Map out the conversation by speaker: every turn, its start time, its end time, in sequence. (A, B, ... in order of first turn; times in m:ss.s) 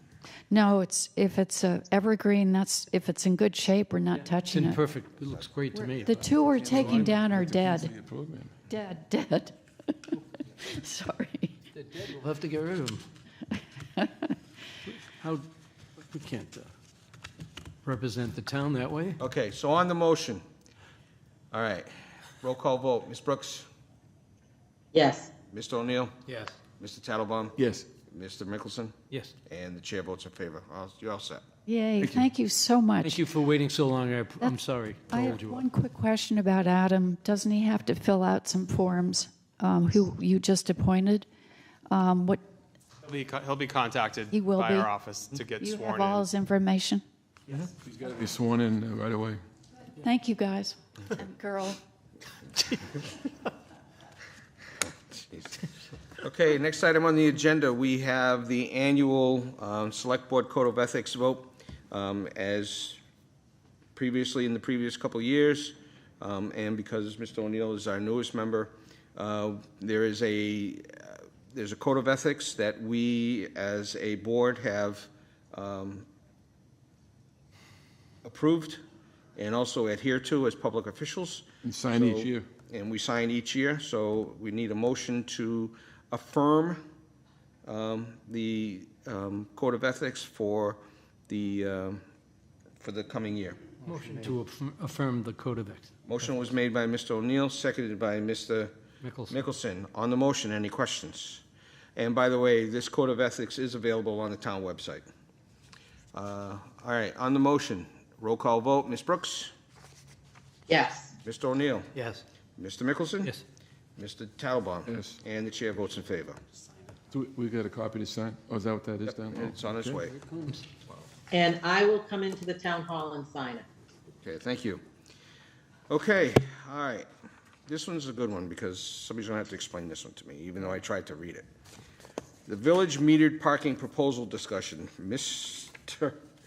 0:00.5-0:04.8 A
0:04.2-0:06.4 B
0:05.7-0:07.9 A
0:06.5-0:08.5 C
0:08.7-0:11.6 A
0:11.8-0:13.1 B
0:14.0-0:14.3 A
0:14.9-0:15.5 B
0:16.0-0:16.7 B
0:17.8-0:19.2 B
0:19.2-0:20.4 D
0:21.5-0:23.7 D
0:24.9-0:25.3 E
0:25.5-0:26.2 D
0:26.3-0:26.6 B
0:26.8-0:28.9 D
0:27.6-0:27.9 C
0:29.5-0:31.4 D
0:31.7-0:33.2 A
0:32.0-0:32.3 C
0:33.0-0:35.7 B
0:34.4-0:41.3 A
0:41.9-0:42.4 A
0:43.0-0:46.3 F
0:44.3-0:44.9 A
0:45.6-0:47.0 A
0:47.8-0:49.4 C
0:50.0-0:51.8 A
0:55.2-0:55.6 D
0:56.2-1:03.0 D
1:04.0-1:16.1 D
1:18.2-1:18.8 D
1:19.4-1:26.8 D
1:21.6-1:22.5 C
1:27.7-1:32.0 D
1:32.8-1:33.6 D
1:33.8-1:35.9 B
1:36.1-1:38.7 D
1:39.0-1:39.4 B
1:39.3-1:41.4 D
1:42.0-1:45.1 D
1:46.1-1:49.5 D
1:50.7-1:51.2 E
1:51.2-1:51.9 D
1:52.0-1:52.2 B
1:52.6-1:53.4 D
1:54.0-1:56.4 D
1:54.9-1:55.2 C
1:57.1-2:00.0 C
1:59.0-2:00.2 D
2:00.2-2:00.6 B
2:01.3-2:03.7 E
2:04.2-2:04.8 D
2:05.9-2:07.1 D
2:07.7-2:11.5 D
2:12.5-2:16.2 D